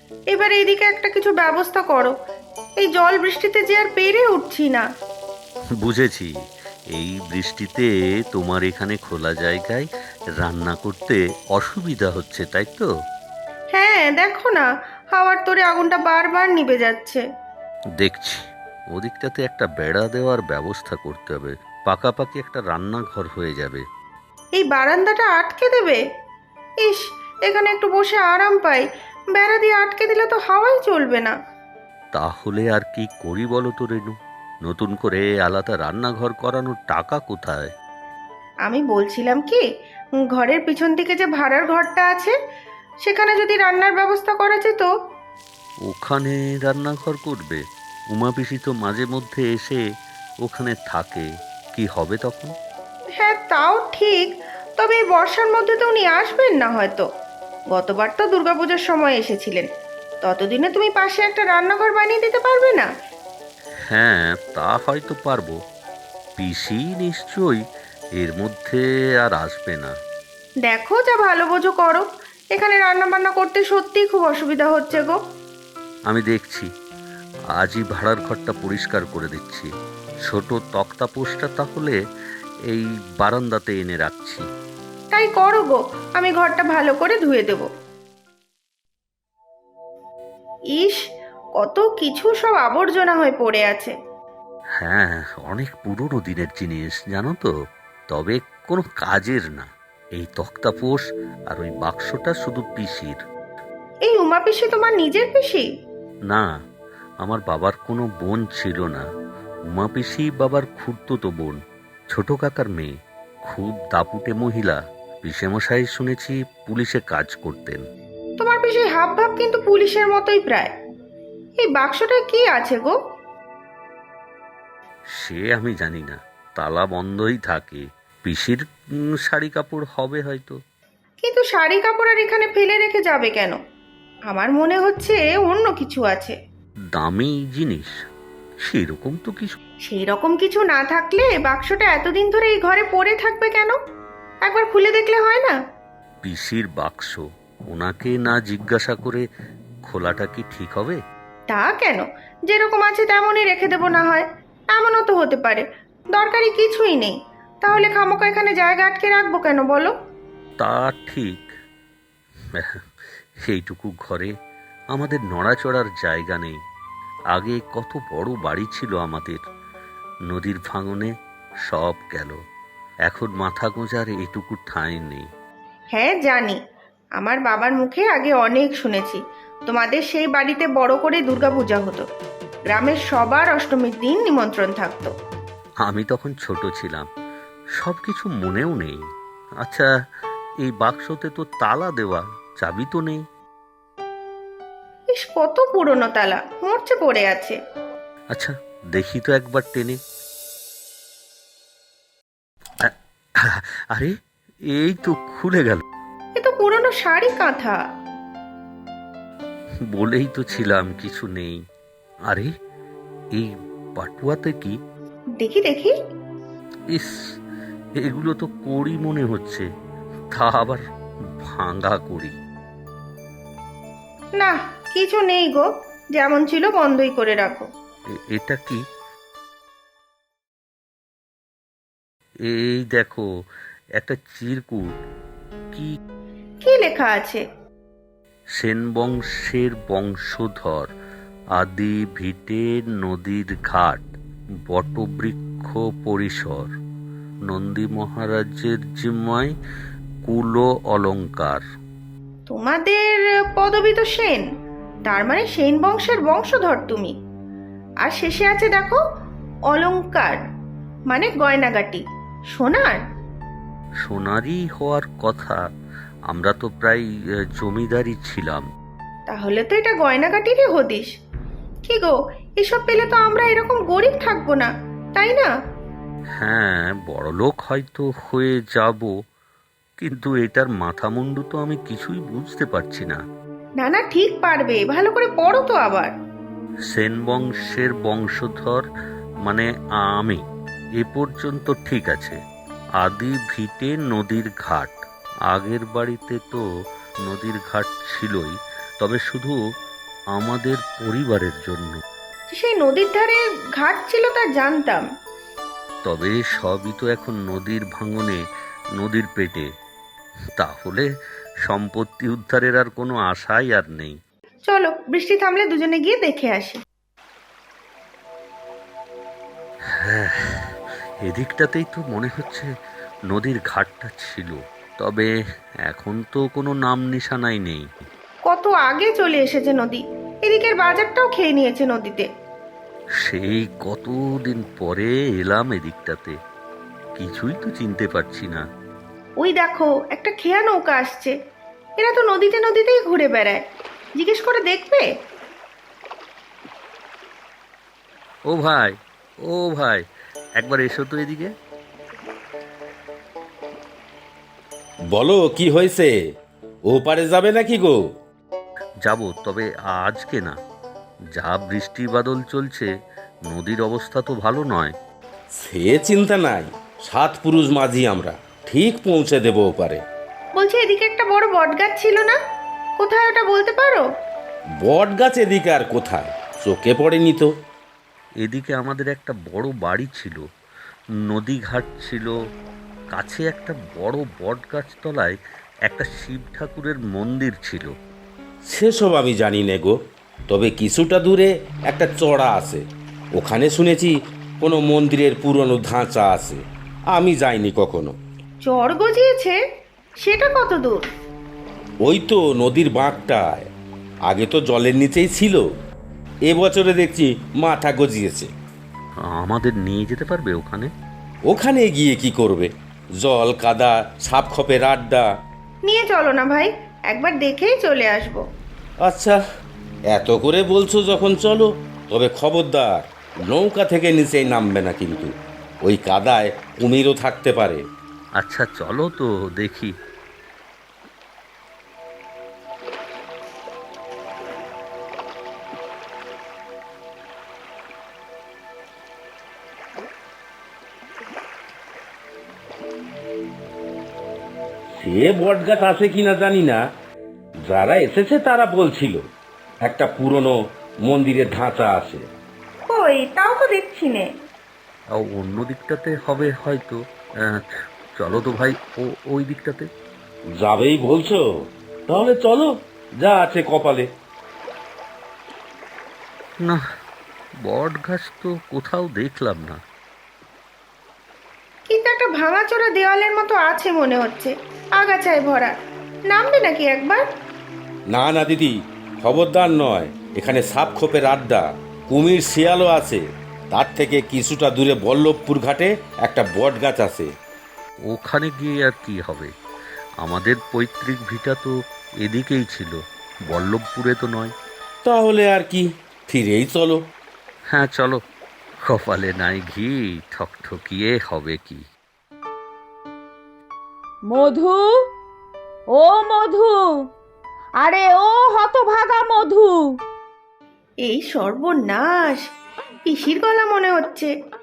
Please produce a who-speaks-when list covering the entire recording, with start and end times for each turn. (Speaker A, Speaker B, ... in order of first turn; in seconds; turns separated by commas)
Speaker A: 0.3-2.1, Speaker A: 2.8-4.8, Speaker B: 5.8-6.3, Speaker B: 6.9-9.9, Speaker B: 10.4-12.9, Speaker A: 13.7-17.2, Speaker B: 18.0-23.8, Speaker A: 24.6-26.0, Speaker A: 26.8-31.3, Speaker B: 32.1-37.7, Speaker A: 38.6-39.6, Speaker A: 40.3-42.3, Speaker A: 43.0-44.9, Speaker B: 45.9-49.8, Speaker B: 50.4-52.5, Speaker A: 53.2-57.0, Speaker A: 57.7-59.7, Speaker A: 60.2-62.9, Speaker B: 63.9-65.5, Speaker B: 66.4-67.6, Speaker B: 68.2-69.9, Speaker A: 70.7-75.2, Speaker B: 76.1-76.7, Speaker B: 77.5-79.7, Speaker B: 80.2-82.0, Speaker B: 82.7-84.4, Speaker A: 85.1-87.7, Speaker A: 91.6-93.9, Speaker B: 94.8-97.5, Speaker B: 98.1-103.2, Speaker A: 104.0-105.7, Speaker B: 107.2-109.0, Speaker B: 109.7-111.6, Speaker B: 112.1-112.9, Speaker B: 113.4-117.8, Speaker A: 118.4-120.7, Speaker A: 121.6-123.0, Speaker B: 125.2-128.6, Speaker B: 129.2-130.6, Speaker A: 131.2-133.6, Speaker A: 134.3-136.3, Speaker B: 136.9-137.9, Speaker B: 138.6-139.6, Speaker A: 139.9-143.8, Speaker A: 144.4-145.5, Speaker B: 146.2-149.2, Speaker B: 149.8-151.0, Speaker A: 151.5-159.9, Speaker B: 160.6-161.5, Speaker B: 162.5-162.8, Speaker B: 163.4-164.3, Speaker B: 164.9-166.6, Speaker B: 167.3-169.4, Speaker B: 170.3-171.1, Speaker B: 171.6-172.4, Speaker B: 173.1-175.3, Speaker A: 175.9-176.6, Speaker A: 177.2-182.0, Speaker A: 182.7-185.1, Speaker B: 185.8-187.1, Speaker B: 187.8-189.0, Speaker B: 190.6-193.2, Speaker A: 195.1-197.6, Speaker B: 198.3-200.0, Speaker B: 202.8-204.1, Speaker B: 204.7-205.8, Speaker A: 206.4-207.8, Speaker B: 209.9-211.6, Speaker B: 213.3-214.8, Speaker A: 215.4-215.9, Speaker B: 218.0-219.7, Speaker B: 220.3-220.8, Speaker B: 221.4-222.3, Speaker A: 224.4-227.6, Speaker B: 228.3-228.8, Speaker B: 232.5-233.2, Speaker B: 234.0-234.9, Speaker A: 236.6-237.4, Speaker B: 238.6-240.9, Speaker B: 241.5-244.1, Speaker B: 244.7-246.7, Speaker B: 247.5-249.5, Speaker B: 250.2-251.6, Speaker A: 252.5-254.4, Speaker A: 255.1-257.1, Speaker A: 258.0-259.0, Speaker A: 259.7-260.4, Speaker A: 261.1-263.0, Speaker B: 264.0-265.6, Speaker B: 266.3-268.6, Speaker A: 269.3-271.1, Speaker A: 271.9-275.5, Speaker B: 276.4-279.1, Speaker B: 280.0-283.2, Speaker A: 283.8-286.1, Speaker B: 286.9-288.8, Speaker B: 289.4-290.4, Speaker B: 291.0-292.4, Speaker B: 293.0-295.0, Speaker B: 295.5-296.6, Speaker B: 297.2-299.6, Speaker B: 300.3-302.0, Speaker A: 302.5-305.0, Speaker B: 306.0-308.4, Speaker B: 309.0-309.7, Speaker B: 310.6-311.1, Speaker B: 311.6-314.2, Speaker A: 314.7-316.8, Speaker B: 319.9-322.7, Speaker B: 323.3-325.3, Speaker B: 325.8-327.9, Speaker A: 328.4-332.3, Speaker B: 333.2-336.4, Speaker B: 337.1-338.6, Speaker A: 339.4-341.3, Speaker A: 342.0-343.6, Speaker A: 344.2-345.1, Speaker B: 348.5-350.0, Speaker B: 350.6-351.5, Speaker C: 355.1-356.1, Speaker C: 356.9-358.0, Speaker B: 359.0-360.6, Speaker B: 361.3-362.9, Speaker B: 363.5-364.9, Speaker C: 365.6-370.0, Speaker A: 370.6-372.4, Speaker A: 373.0-374.0, Speaker C: 374.8-377.5, Speaker B: 378.4-380.4, Speaker B: 381.3-382.3, Speaker B: 383.1-387.9, Speaker C: 388.7-389.9, Speaker C: 390.5-392.8, Speaker C: 393.3-398.1, Speaker A: 398.6-399.6, Speaker A: 400.2-401.0, Speaker C: 402.0-403.7, Speaker C: 404.2-405.6, Speaker C: 406.4-408.5, Speaker B: 409.2-410.9, Speaker C: 411.5-415.3, Speaker A: 415.9-418.4, Speaker C: 419.0-419.4, Speaker C: 420.1-427.8, Speaker B: 428.4-429.9, Speaker C: 444.9-446.8, Speaker C: 447.6-449.2, Speaker C: 449.8-452.2, Speaker A: 452.9-454.3, Speaker B: 455.1-459.9, Speaker C: 460.6-461.4, Speaker C: 462.1-464.1, Speaker B: 467.6-469.8, Speaker A: 471.9-475.7, Speaker A: 476.3-477.2, Speaker C: 478.1-487.3, Speaker B: 488.1-489.5, Speaker B: 490.2-494.5, Speaker C: 495.0-497.0, Speaker B: 497.7-498.2, Speaker B: 498.9-501.8, Speaker D: 504.3-504.9, Speaker D: 505.9-506.9, Speaker D: 507.8-510.0, Speaker A: 511.1-512.4, Speaker A: 513.0-514.3